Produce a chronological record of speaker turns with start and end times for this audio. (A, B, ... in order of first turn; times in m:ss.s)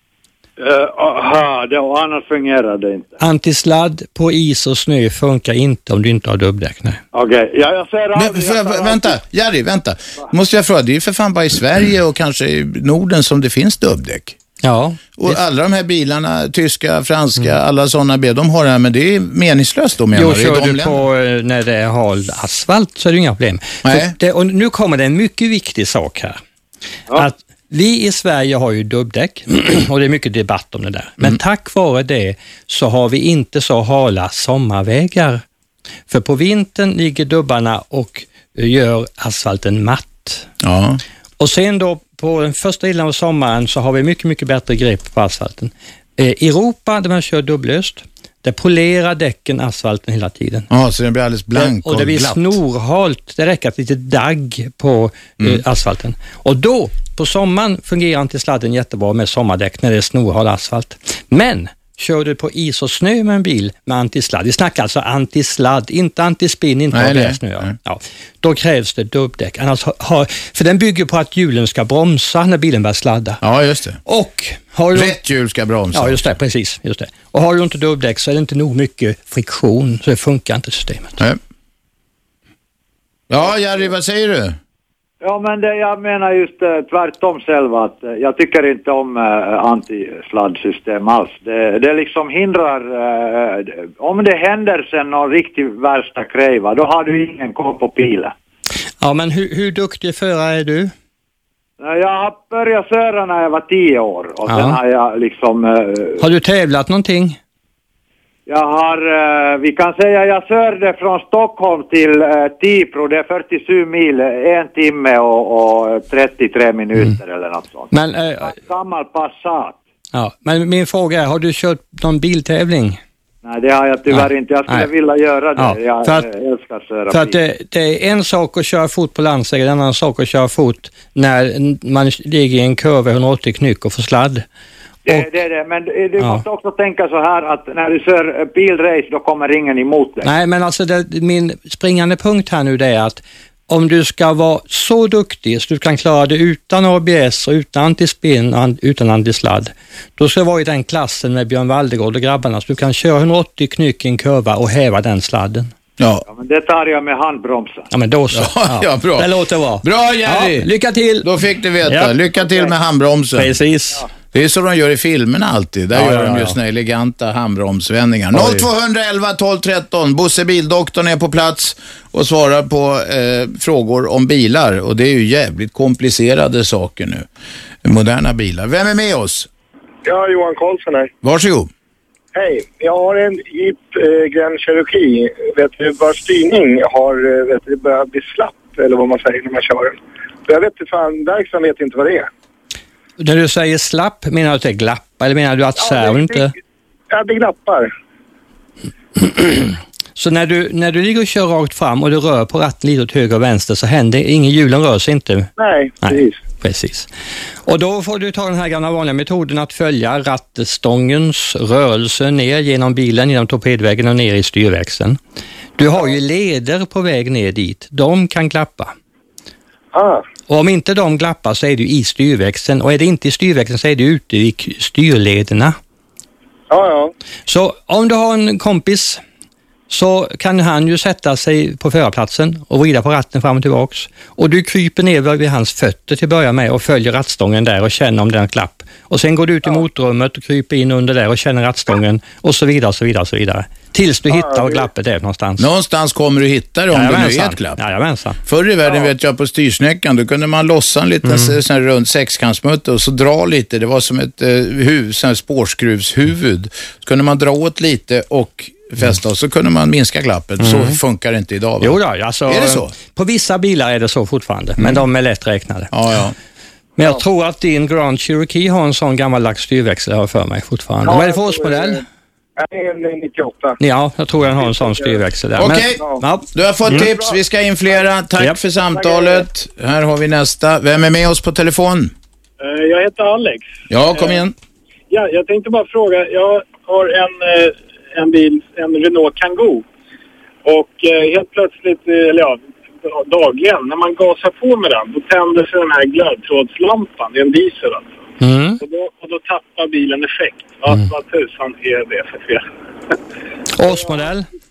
0:00.6-0:03.2 A
0:03.2-0:07.0 B
0:07.1-0:09.2 A
0:08.2-0:14.4 C
0:14.6-0:15.4 B
0:15.2-0:21.0 C
0:20.2-0:26.4 B
0:23.8-0:24.2 C
0:27.1-0:35.4 B
0:36.1-0:40.5 B
0:40.6-0:41.0 C
0:41.4-0:50.7 B
0:50.7-0:52.6 C
0:51.6-1:13.4 B
1:06.9-1:07.8 C
1:13.4-1:14.0 C
1:14.1-1:15.2 B
1:14.9-1:16.2 C
1:15.9-1:21.2 B
1:23.3-1:24.6 C
1:25.2-1:38.3 A
1:39.0-1:40.9 B
1:41.8-1:46.2 A
1:44.5-1:44.8 B
1:46.2-1:47.4 B
1:48.5-1:59.8 A
1:57.9-1:58.5 B
2:00.1-2:03.0 B
2:03.4-2:07.4 A
2:04.1-2:04.9 B
2:05.6-2:06.3 B
2:07.1-2:14.4 B
2:15.1-2:20.3 A
2:20.2-2:35.7 B
2:36.0-2:36.2 C
2:36.3-2:37.9 A
2:37.9-2:41.3 B
2:38.3-2:39.3 C
2:39.8-2:40.7 C
2:41.2-2:43.6 C
2:41.9-2:42.1 B
2:43.4-2:44.0 B
2:44.3-2:57.3 C
2:45.9-2:46.6 B
2:48.3-2:48.7 B
2:57.8-2:59.5 C
3:00.1-3:01.1 D
3:01.2-3:01.7 C
3:02.4-3:09.9 D
3:10.5-3:12.3 D
3:13.2-3:16.5 B
3:17.1-3:17.9 D
3:19.2-3:25.5 B
3:25.6-3:26.3 D
3:26.0-3:27.1 B
3:27.7-3:35.2 B
3:35.8-3:38.9 B
3:40.5-3:45.8 B
3:47.5-3:49.2 B
3:49.9-4:05.7 B
4:05.6-4:07.8 C
4:06.9-4:08.4 B
4:08.5-4:22.9 C
4:11.2-4:11.6 B
4:20.6-4:21.0 B
4:21.8-4:25.9 B
4:24.8-4:25.0 C
4:25.9-4:26.4 C
4:27.0-4:32.0 B
4:31.1-4:31.8 D
4:32.6-4:33.8 D
4:33.8-4:37.1 B
4:35.6-4:42.1 C
4:42.6-4:44.4 E
4:43.9-4:44.6 C
4:45.1-4:49.8 E
4:50.6-4:58.1 E
4:58.4-4:58.8 B
4:58.8-5:02.6 E
5:03.8-5:04.5 B